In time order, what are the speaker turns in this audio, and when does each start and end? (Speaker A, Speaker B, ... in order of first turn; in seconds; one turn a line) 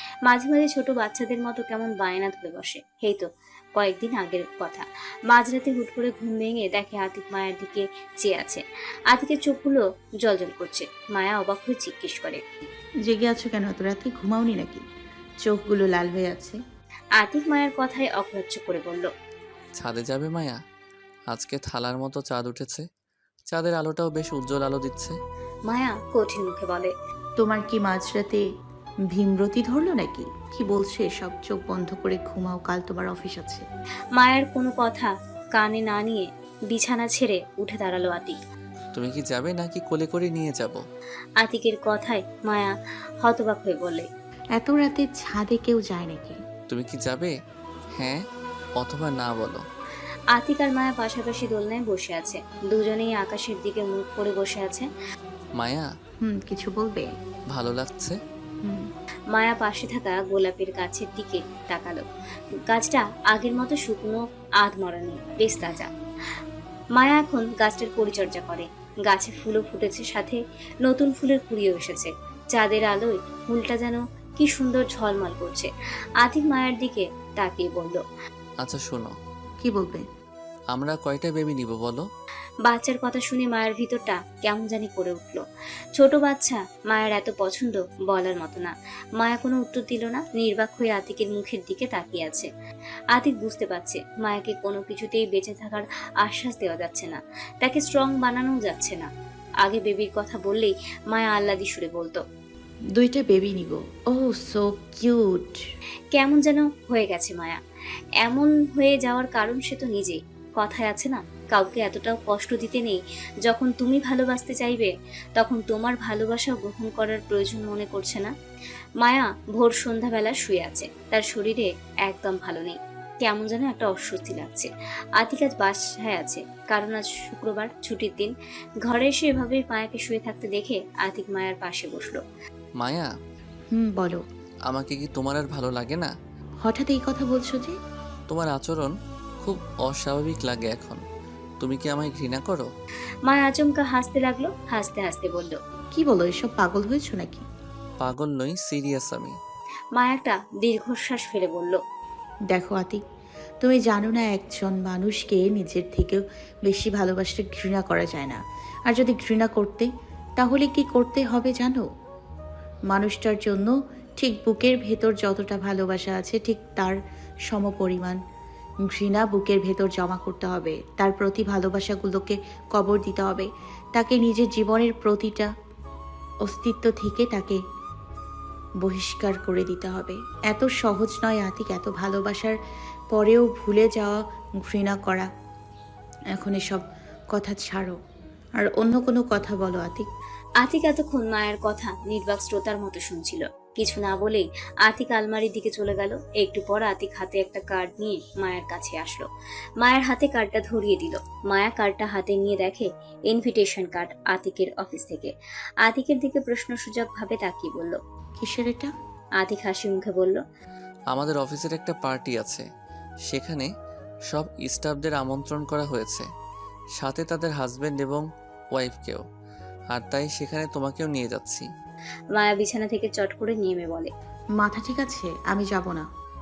Speaker A: 0.2-12.4
Speaker B: 13.1-14.8
Speaker B: 15.4-16.6
Speaker A: 17.2-19.1
Speaker C: 19.8-20.6
Speaker C: 21.3-22.9
Speaker C: 23.5-25.2
Speaker A: 25.7-26.9
Speaker B: 27.4-28.4
Speaker B: 29.1-33.6
Speaker A: 34.2-38.4
Speaker C: 38.9-40.8
Speaker A: 41.4-44.1
Speaker B: 44.6-46.4
Speaker C: 46.7-47.3
Speaker C: 48.8-49.6
Speaker A: 50.4-54.9
Speaker C: 55.6-55.9
Speaker B: 56.2-57.1
Speaker C: 57.5-58.2
Speaker A: 59.3-62.0
Speaker A: 62.7-65.9
Speaker A: 67.0-75.7
Speaker A: 76.2-78.0
Speaker C: 78.6-79.1
Speaker B: 79.6-80.0
Speaker C: 80.7-82.0
Speaker A: 82.7-85.4
Speaker A: 86.0-92.5
Speaker A: 93.1-99.1
Speaker A: 99.6-102.2
Speaker B: 103.0-105.6
Speaker A: 106.1-107.6
Speaker A: 108.2-118.3
Speaker A: 119.0-128.3
Speaker A: 128.8-132.2
Speaker C: 132.8-133.1
Speaker B: 133.7-134.2
Speaker C: 134.7-136.1
Speaker B: 136.6-137.7
Speaker C: 138.3-141.0
Speaker C: 141.6-142.7
Speaker A: 143.2-145.6
Speaker B: 145.9-147.5
Speaker C: 148.0-149.3
Speaker A: 149.9-151.8
Speaker B: 152.5-153.0
Speaker B: 153.6-161.9
Speaker B: 162.9-167.0
Speaker B: 167.5-168.2
Speaker B: 168.9-175.5
Speaker B: 176.4-177.6
Speaker B: 178.8-182.6
Speaker B: 183.1-185.3
Speaker B: 186.3-188.0
Speaker B: 188.6-190.1
Speaker A: 190.6-199.3
Speaker A: 199.8-205.3
Speaker A: 205.8-208.0
Speaker B: 208.4-208.9
Speaker A: 209.4-210.4
Speaker C: 211.1-212.6
Speaker C: 213.3-213.7
Speaker C: 214.3-216.2
Speaker C: 217.0-219.2
Speaker C: 219.9-221.7
Speaker A: 222.3-224.1
Speaker B: 224.6-226.1